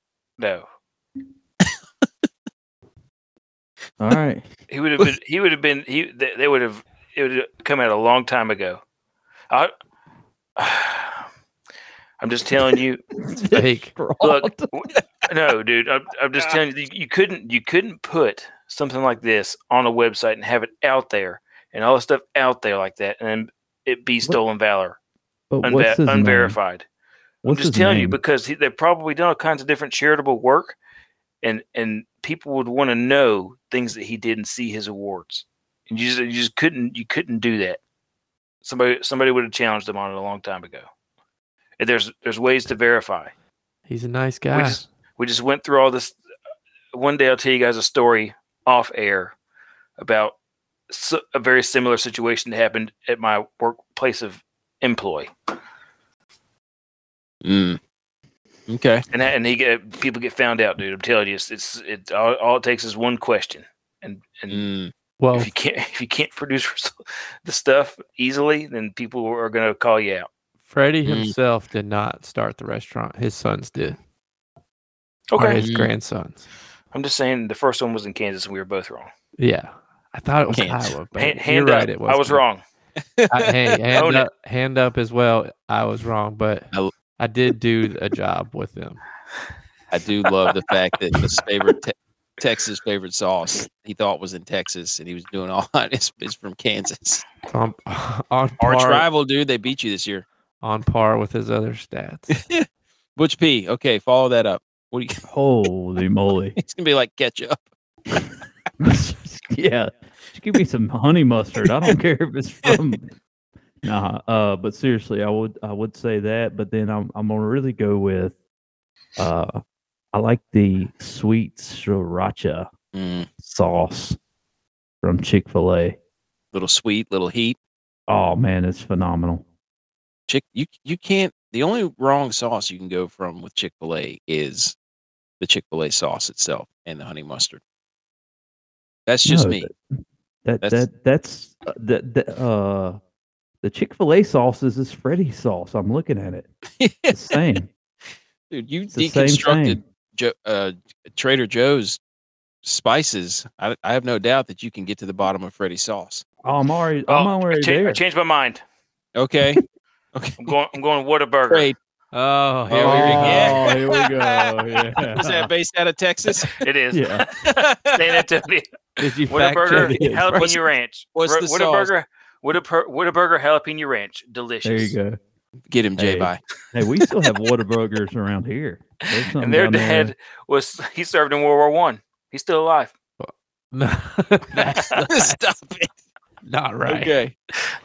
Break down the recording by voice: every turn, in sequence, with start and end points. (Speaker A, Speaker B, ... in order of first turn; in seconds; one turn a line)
Speaker A: 0.4-0.6
Speaker B: 4.0-4.5
Speaker A: 4.7-8.8
Speaker A: 10.6-11.2
Speaker A: 12.2-13.0
Speaker B: 13.3-14.7
Speaker C: 13.5-13.9
Speaker A: 14.2-25.0
Speaker B: 25.5-26.6
Speaker A: 25.6-26.9
Speaker B: 27.4-28.2
Speaker A: 27.5-30.8
Speaker A: 31.4-37.8
Speaker A: 38.6-40.9
Speaker A: 41.8-43.3
Speaker C: 43.9-44.8
Speaker A: 44.5-46.2
Speaker A: 46.9-49.4
Speaker A: 50.0-50.4
Speaker A: 50.9-55.3
Speaker D: 57.4-57.8
Speaker D: 58.7-59.0
Speaker A: 59.1-64.6
Speaker D: 64.5-64.9
Speaker C: 65.2-65.5
Speaker A: 65.3-70.3
Speaker C: 70.7-74.0
Speaker D: 71.1-71.3
Speaker A: 75.3-75.6
Speaker C: 75.4-76.5
Speaker D: 75.6-75.9
Speaker A: 76.9-79.1
Speaker C: 79.4-82.4
Speaker D: 80.5-80.9
Speaker A: 81.2-82.6
Speaker D: 83.2-83.8
Speaker C: 83.3-89.0
Speaker A: 83.9-84.3
Speaker D: 89.9-97.2
Speaker C: 97.5-99.0
Speaker D: 98.6-100.3
Speaker C: 100.6-102.4
Speaker D: 102.3-105.2
Speaker B: 105.3-106.6
Speaker D: 106.6-107.6
Speaker B: 108.8-113.1
Speaker B: 113.8-118.4
Speaker B: 119.2-119.6
Speaker B: 120.1-122.7
Speaker D: 122.9-123.3
Speaker B: 123.4-124.2
Speaker B: 125.0-126.0
Speaker D: 126.5-127.6
Speaker B: 128.1-129.4
Speaker D: 130.3-134.8
Speaker D: 135.4-137.6
Speaker D: 139.1-139.7
Speaker B: 139.3-139.8
Speaker B: 140.4-143.0
Speaker B: 143.6-146.5
Speaker D: 146.8-147.4
Speaker B: 147.1-147.7
Speaker D: 148.5-152.0
Speaker B: 148.9-149.8
Speaker D: 152.6-156.2
Speaker B: 156.4-158.0
Speaker A: 157.1-158.6
Speaker D: 159.2-159.6
Speaker D: 160.1-160.5
Speaker A: 160.4-161.7
Speaker D: 161.5-161.8
Speaker C: 162.1-163.7
Speaker D: 162.7-166.5
Speaker B: 162.7-165.5
Speaker A: 166.6-168.7
Speaker B: 166.9-167.3
Speaker D: 167.4-168.2
Speaker C: 169.0-170.4
Speaker A: 169.3-175.0
Speaker B: 169.7-170.4
Speaker D: 171.2-171.9
Speaker B: 174.6-175.2
Speaker D: 175.7-176.4
Speaker B: 176.0-180.1
Speaker A: 179.1-182.9
Speaker C: 183.2-185.4
Speaker D: 185.1-185.9
Speaker C: 186.5-187.1
Speaker D: 186.9-187.3